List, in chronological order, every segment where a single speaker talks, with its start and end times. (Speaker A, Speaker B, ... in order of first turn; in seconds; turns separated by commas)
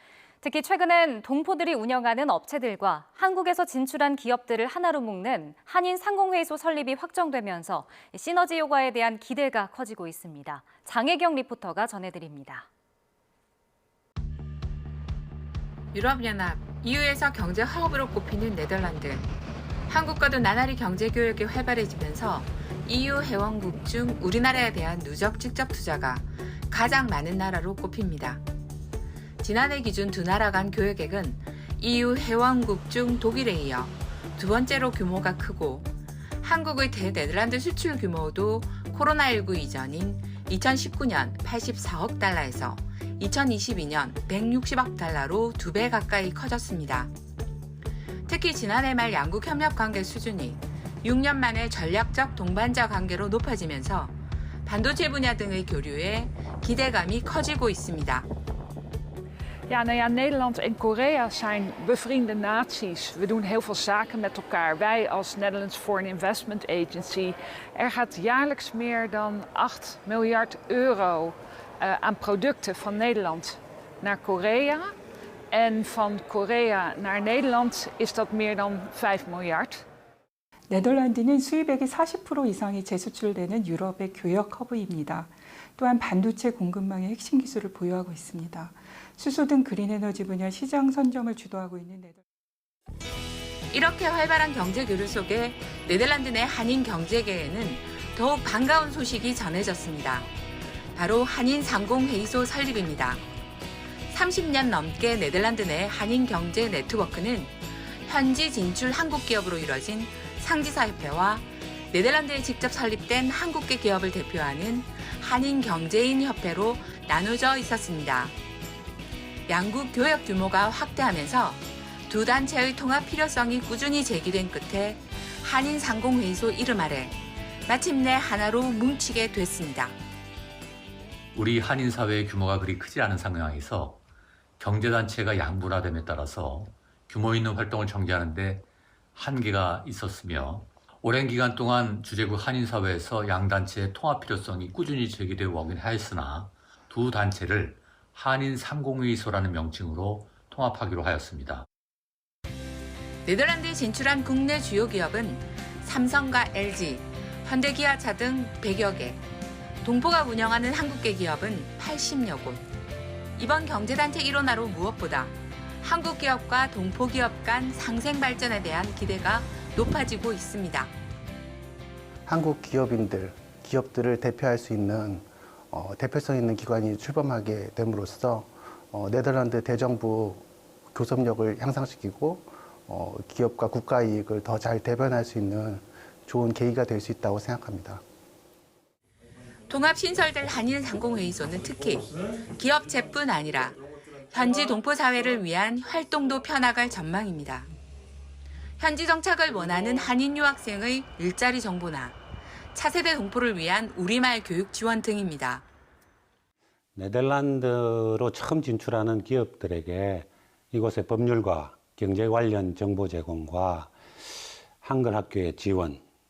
Speaker A: 0.4-12.7, Speaker B: 15.9-19.3, Speaker B: 19.9-28.4, Speaker B: 29.4-35.9, Speaker B: 36.4-47.1, Speaker B: 48.3-54.1, Speaker B: 54.7-58.3, Speaker C: 59.7-74.9, Speaker C: 75.5-79.8, Speaker D: 80.7-92.2, Speaker B: 93.7-100.3, Speaker B: 101.0-103.2, Speaker B: 104.1-107.5, Speaker B: 108.1-118.3, Speaker B: 119.5-127.2, Speaker B: 127.7-130.0, Speaker E: 131.3-134.0, Speaker E: 134.6-151.7, Speaker B: 153.3-159.2, Speaker B: 159.8-162.6, Speaker B: 163.4-170.9, Speaker F: 172.3-188.0, Speaker B: 189.7-193.8, Speaker B: 194.3-197.7, Speaker B: 198.8-202.2, Speaker B: 202.8-205.6, Speaker G: 206.9-214.0, Speaker G: 214.8-216.0